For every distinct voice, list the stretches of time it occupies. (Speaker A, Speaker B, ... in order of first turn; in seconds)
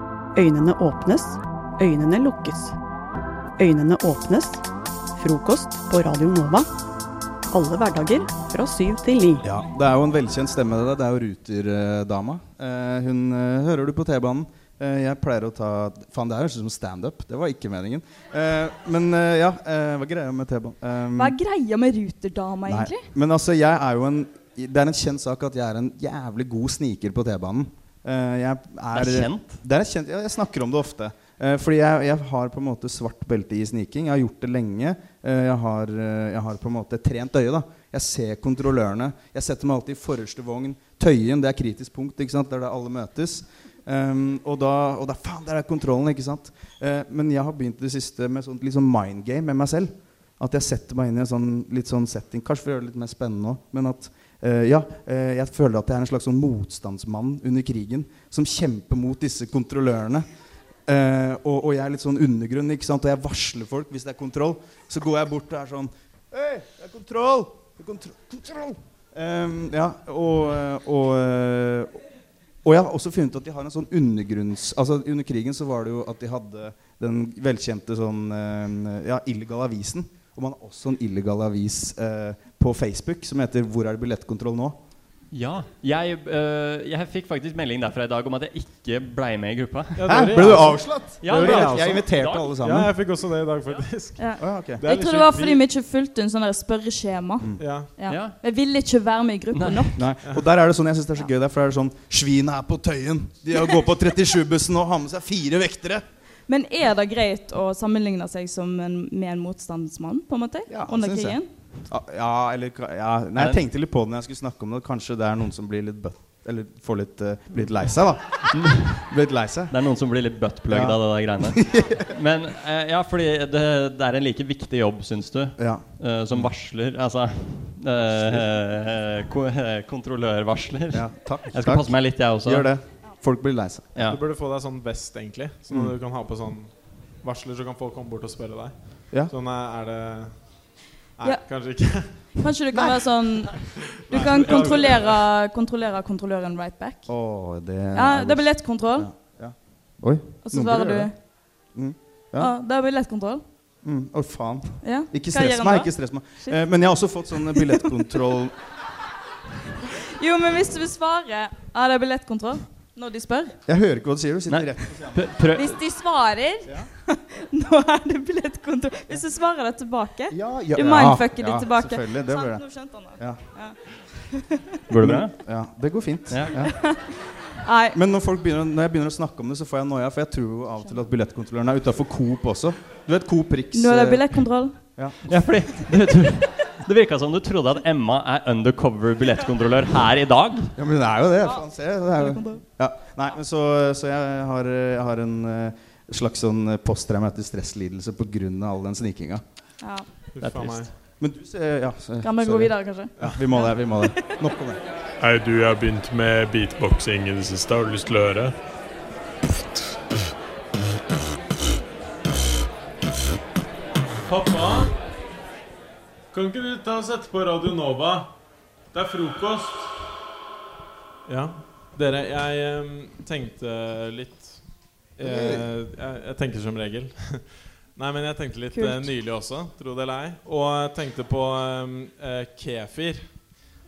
Speaker A: 0.3-2.8, 3.6-4.6, 5.2-6.7, 7.5-9.4
Speaker B: 9.4-21.4, 22.6-60.2, 60.9-72.0, 72.6-84.8, 90.1-92.9, 94.4-94.8, 100.0-106.0, 110.7-119.8, 120.7-122.0, 125.6-126.5, 128.0-128.5, 130.9-134.0, 135.7-135.9, 142.7-143.5, 144.1-144.8, 147.1-152.5, 153.8-158.5, 163.7-165.2, 170.3-173.4, 175.0-176.8, 177.9-185.2, 190.8-199.4, 201.2-204.8, 225.2-225.7
Speaker C: 21.1-23.1, 94.2-100.0, 106.5-111.5, 142.2-147.1, 147.9-149.1, 150.4-151.2, 152.4-153.4, 154.8-156.6, 157.3-158.2, 159.8-163.6, 165.5-174.8, 176.6-178.0, 183.7-184.8, 191.4-192.6, 199.8-200.1, 202.2-204.4, 228.7-229.1
Speaker D: 28.9-29.6, 85.3-92.6, 98.1-98.3, 99.5-100.0, 119.7-132.7, 133.9-134.2, 164.5-165.8, 174.9-175.3, 176.3-176.6, 185.2-190.7, 200.4-200.9
Speaker E: 90.0-95.6, 97.6-97.9, 134.1-142.3, 144.1-145.2, 200.3-200.9, 206.9-208.3, 214.2-215.0, 216.3-218.3, 218.9-219.9, 221.2-233.4
Speaker F: 205.2-208.5